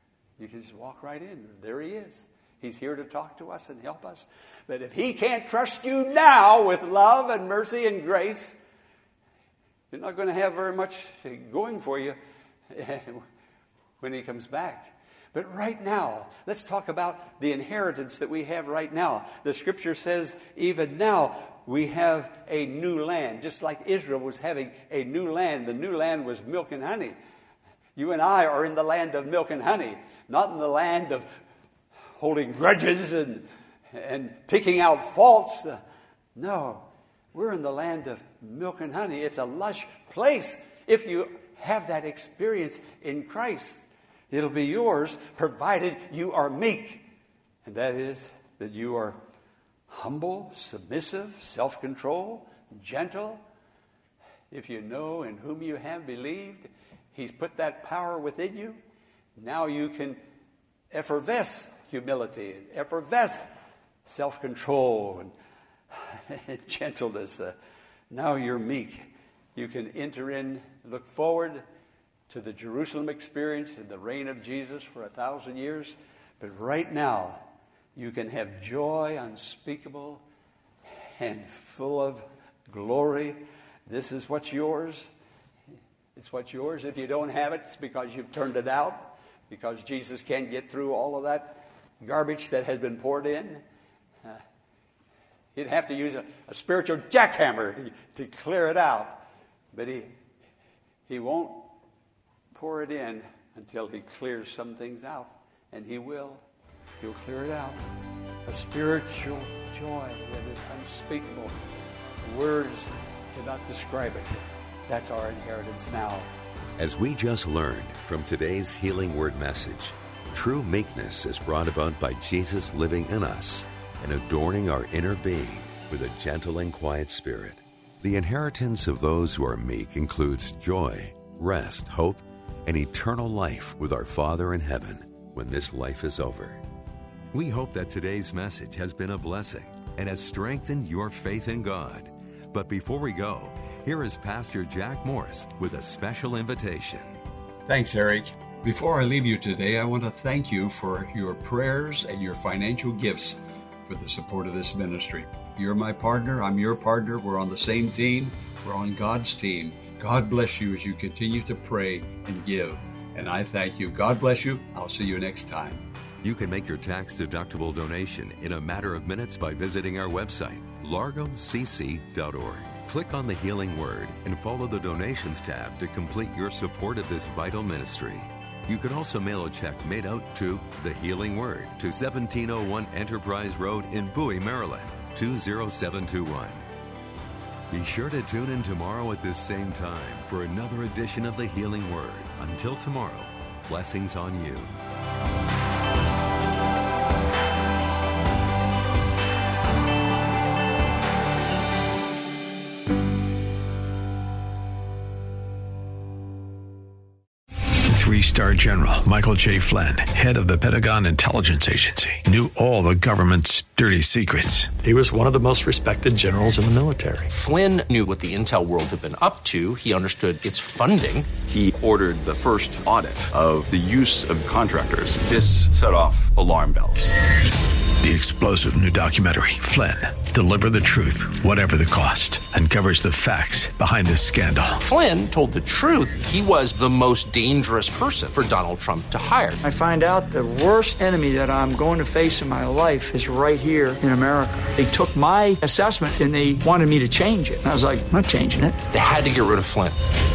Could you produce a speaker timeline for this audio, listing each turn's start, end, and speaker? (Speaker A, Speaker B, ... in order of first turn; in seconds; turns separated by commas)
Speaker A: 0.4-8.6, Speaker A: 9.9-12.2, Speaker A: 12.7-13.2, Speaker A: 14.0-27.2, Speaker A: 28.0-31.3, Speaker A: 32.2-35.8, Speaker A: 36.4-47.0, Speaker A: 47.6-49.2, Speaker A: 49.9-53.4, Speaker A: 54.5-58.8, Speaker A: 59.4-60.2, Speaker A: 60.9-63.5, Speaker A: 64.0-65.3, Speaker A: 65.9-67.5, Speaker A: 68.1-71.6, Speaker A: 72.3-77.4, Speaker A: 78.0-80.2, Speaker A: 81.2-85.1, Speaker A: 86.2-93.6, Speaker A: 95.5-100.1, Speaker A: 101.1-101.7, Speaker A: 102.5-106.4, Speaker A: 107.0-107.8, Speaker A: 108.5-111.6, Speaker A: 112.2-116.3, Speaker B: 116.8-136.6, Speaker B: 137.3-147.2, Speaker A: 147.7-165.8, Speaker B: 166.2-186.7, Speaker B: 187.7-194.8, Speaker C: 207.9-214.7, Speaker D: 214.8-217.3, Speaker E: 217.3-221.3, Speaker F: 221.5-227.1, Speaker C: 228.0-234.8, Speaker E: 234.8-239.6, Speaker G: 239.6-248.8, Speaker E: 248.9-250.0